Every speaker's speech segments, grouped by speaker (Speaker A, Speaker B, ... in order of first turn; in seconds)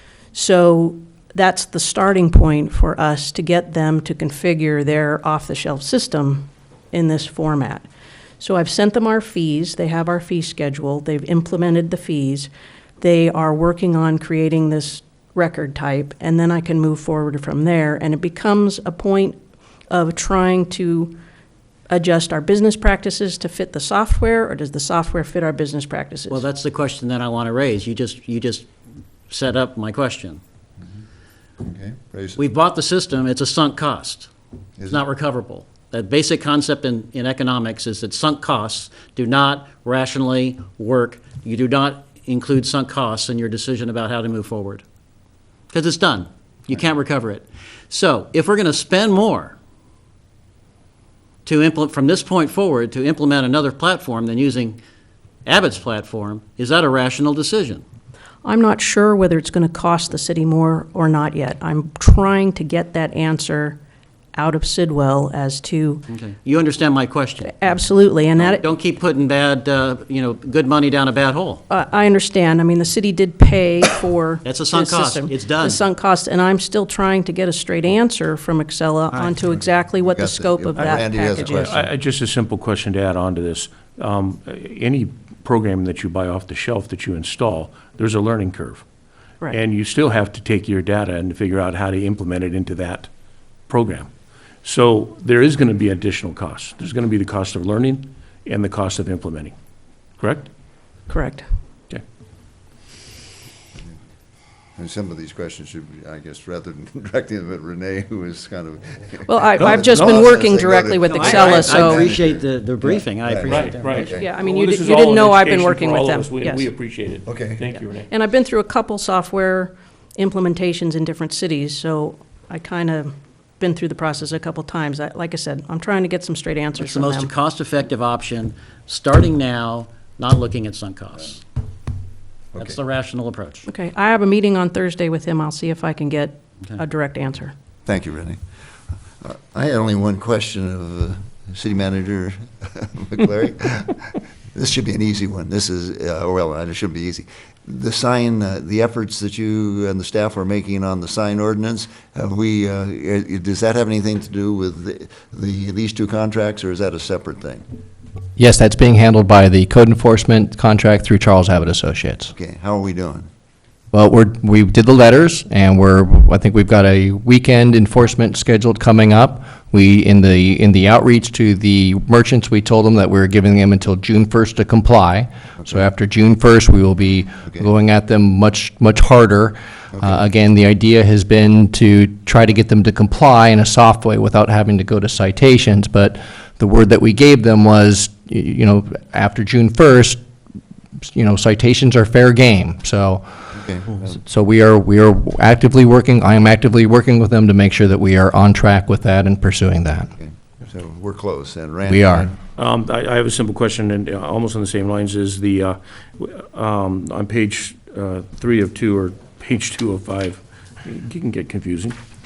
Speaker A: 0.3-7.8, 8.4-19.4, 19.9-21.1, 21.9-26.4, 58.4-63.8, 64.3-66.0, 67.4-68.7, 71.7-81.8, 101.1-101.4, 109.3-112.1, 114.1-116.7, 118.1-127.3, 133.7-137.5
Speaker B: 26.3-28.7, 29.3-30.4, 32.4-34.3, 34.9-44.8, 45.7-49.5, 51.4-54.8, 55.5-57.8, 66.1-67.6, 68.4-71.6, 74.4-75.8, 111.1-114.1, 126.8-131.4, 132.6-133.7
Speaker C: 31.6-32.4, 34.8-35.0, 80.0-81.9, 104.8-114.3, 117.2-117.7, 137.8-138.4, 139.2-157.6, 162.3-163.3, 193.6-194.0, 200.2-202.3
Speaker D: 81.6-88.8, 89.5-93.1, 93.7-94.1, 94.6-99.5, 100.2-100.5, 113.5-118.1, 202.6-211.9
Speaker E: 158.4-162.3, 163.9-190.2, 191.0-193.2, 194.0-200.1, 201.8-202.3